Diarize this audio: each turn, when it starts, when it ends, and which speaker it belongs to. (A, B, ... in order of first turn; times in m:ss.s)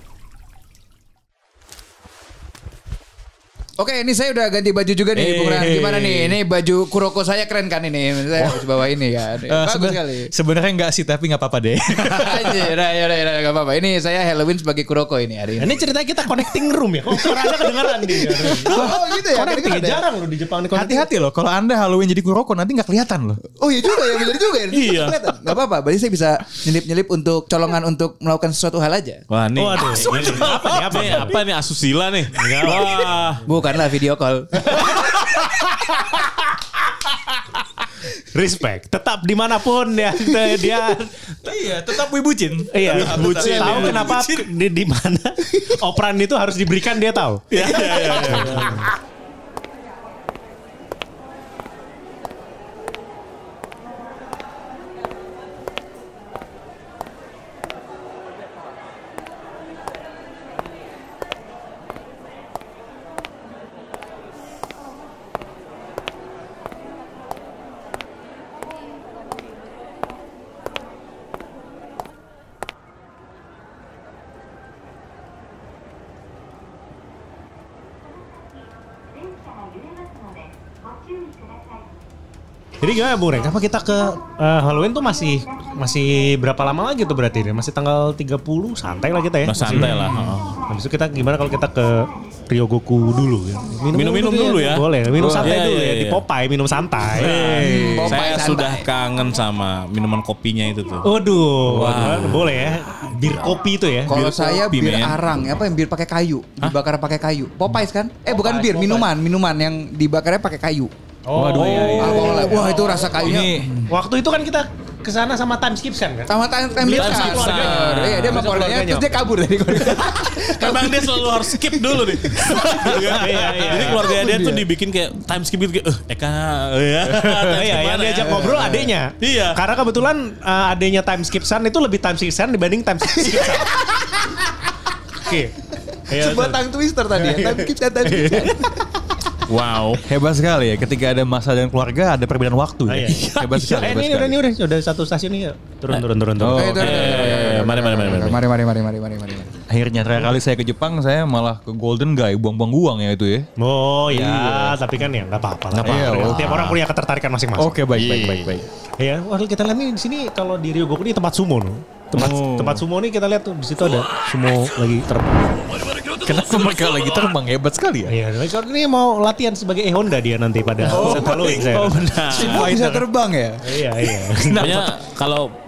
0:03.8-0:10.3 A
0:05.2-0:06.4 B
0:08.3-0:08.7 B
0:09.4-0:12.7 B
0:12.0-0:15.8 A
0:15.6-0:21.1 C
0:17.2-0:20.0 A
0:18.7-0:19.1 B
0:20.7-0:23.4 B
0:23.5-0:29.2 A
0:24.7-0:25.2 D
0:29.3-0:33.4 D
0:29.5-0:31.4 C
0:29.8-0:31.3 B
0:32.3-0:33.1 C
0:33.4-0:35.8 A
0:35.1-0:35.6 B
0:38.3-0:41.3 C
0:41.4-0:44.4 B
0:42.7-0:47.6 C
0:42.9-0:44.3 D
0:47.5-0:48.9 D
0:47.6-0:48.8 B
0:47.6-0:48.3 A
0:48.2-0:48.8 C
1:22.8-1:29.9 C
1:29.4-1:30.5 D
1:29.7-1:30.3 B
1:30.6-1:37.6 C
1:33.9-1:36.2 D
1:35.2-1:35.5 A
1:37.1-1:41.1 D
1:37.6-1:38.8 A
1:41.0-1:44.1 C
1:41.7-1:42.7 D
1:41.8-1:42.5 B
1:44.1-1:50.9 A
1:44.1-1:45.2 D
1:48.2-1:49.1 C
1:51.2-1:53.0 C
1:51.3-1:53.7 B
1:51.5-1:52.5 D
1:51.9-1:53.9 A
1:53.9-2:00.0 C
1:56.3-2:03.0 A
1:56.9-1:58.4 D
1:59.9-2:08.6 D
2:03.1-2:04.1 C
2:03.9-2:04.7 A
2:07.4-2:13.7 C
2:08.4-2:08.9 A
2:09.2-2:09.6 D
2:13.3-2:13.8 A
2:15.2-2:18.6 C
2:15.8-2:18.9 A
2:19.5-2:20.0 D
2:20.0-2:24.4 B
2:22.9-2:27.3 C
2:23.1-2:23.8 D
2:26.4-2:27.6 B
2:26.5-2:29.5 A
2:26.8-2:28.4 D
2:29.7-2:33.5 B
2:33.6-2:37.7 C
2:34.1-2:34.7 A
2:35.8-2:36.8 B
2:37.6-2:38.6 B
2:37.9-2:38.6 D
2:39.0-2:45.6 C
2:42.1-2:42.8 B
2:46.2-2:48.1 B
2:48.0-2:52.0 C
2:50.8-2:53.1 B
2:51.3-2:52.7 D
2:52.3-2:53.6 A
2:53.6-2:54.8 C
2:54.2-2:54.9 B
2:54.5-2:55.5 D